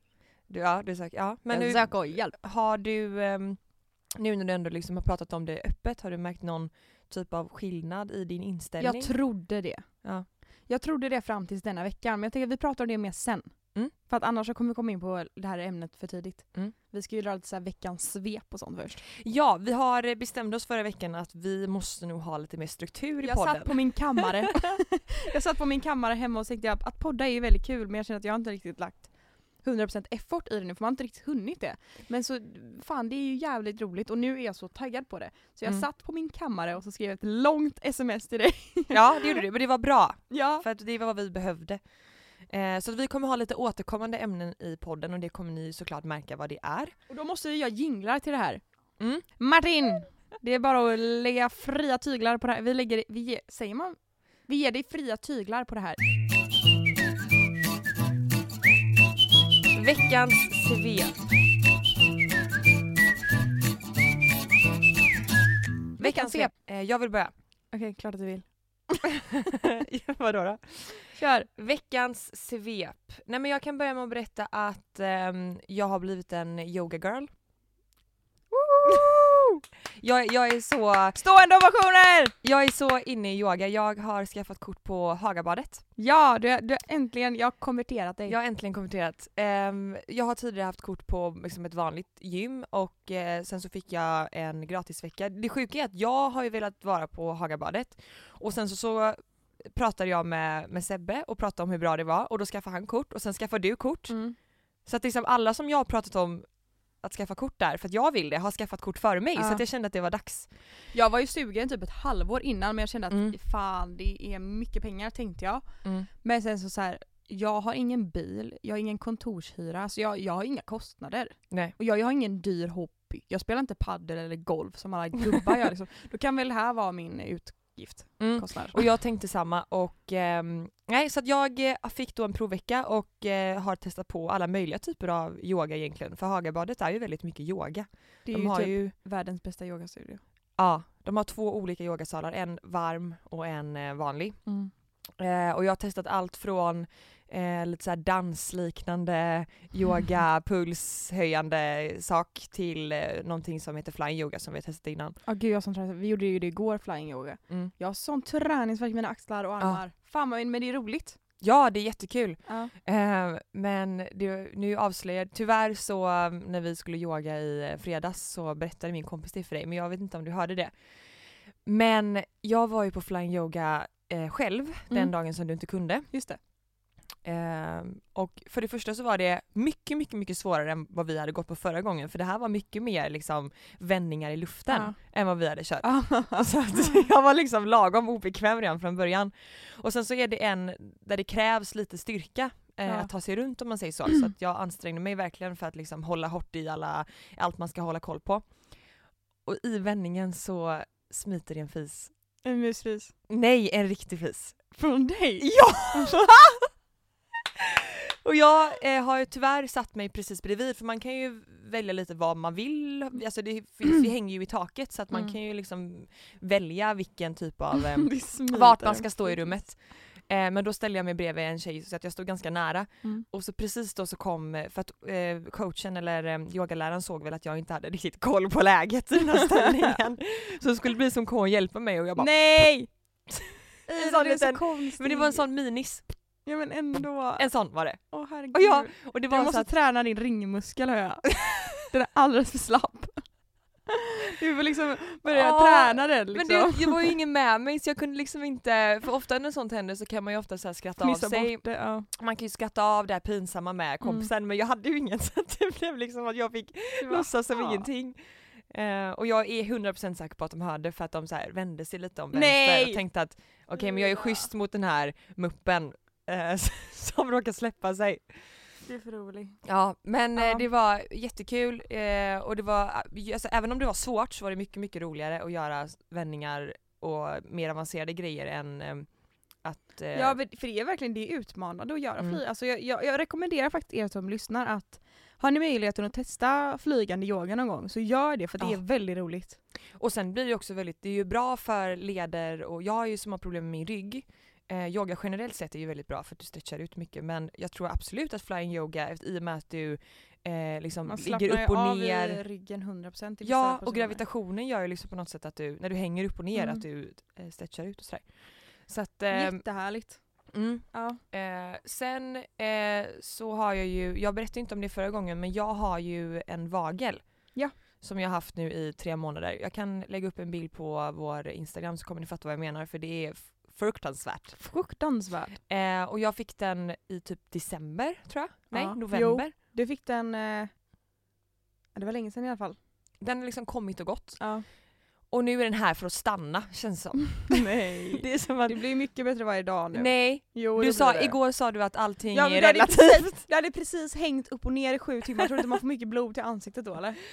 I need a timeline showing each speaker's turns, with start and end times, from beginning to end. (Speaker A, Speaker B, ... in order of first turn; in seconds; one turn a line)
Speaker A: 0.5-10.3
Speaker B: 1.5-2.4
Speaker B: 8.8-19.0
Speaker A: 19.2-24.4
Speaker B: 23.2-39.4
Speaker A: 38.9-47.0
Speaker B: 40.3-40.7
Speaker B: 47.1-56.0
Speaker A: 49.0-49.2
Speaker A: 59.7-61.2
Speaker B: 66.0-66.5
Speaker A: 66.0-67.3
Speaker B: 67.7-69.0
Speaker A: 69.9-77.3
Speaker B: 71.1-71.5
Speaker B: 78.5-79.4
Speaker A: 80.0-81.2
Speaker B: 81.2-82.3
Speaker A: 82.4-85.8
Speaker B: 86.0-88.4
Speaker A: 88.3-110.8
Speaker B: 104.1-104.4
Speaker B: 109.3-109.6
Speaker B: 110.9-128.8
Speaker A: 113.1-113.4
Speaker A: 115.8-116.1
Speaker A: 121.5-121.8
Speaker A: 128.2-138.9
Speaker B: 138.2-140.2
Speaker A: 140.6-155.2
Speaker B: 144.4-144.7
Speaker B: 155.2-161.2
Speaker A: 159.6-159.8
Speaker A: 161.4-176.5
Speaker B: 162.5-162.7
Speaker B: 174.9-176.4
Speaker A: 177.2-202.4
Speaker B: 184.7-187.0
Speaker B: 192.8-193.6
Speaker B: 202.4-203.2
Speaker A: 203.3-204.8
Speaker B: 204.7-206.2
Speaker A: 205.4-206.6
Speaker A: 208.2-233.1
Speaker B: 215.1-215.4
Speaker B: 218.1-219.8
Speaker B: 232.2-243.8
Speaker A: 233.9-236.5
Speaker A: 237.4-239.7
Speaker B: 244.4-247.2
Speaker A: 245.2-268.7
Speaker B: 251.0-252.1
Speaker B: 254.0-254.3
Speaker B: 257.0-257.9
Speaker B: 262.3-264.5
Speaker B: 268.9-269.8
Speaker A: 269.6-280.4
Speaker B: 270.3-270.6
Speaker B: 280.1-289.6
Speaker A: 288.6-302.5
Speaker B: 301.1-304.3
Speaker A: 303.4-325.0
Speaker B: 306.5-306.8
Speaker B: 309.3-311.2
Speaker B: 324.6-325.6
Speaker A: 325.7-329.5
Speaker B: 328.7-330.8
Speaker B: 331.9-332.8
Speaker A: 333.2-338.8
Speaker B: 334.4-334.7
Speaker B: 337.5-347.2
Speaker A: 339.9-343.5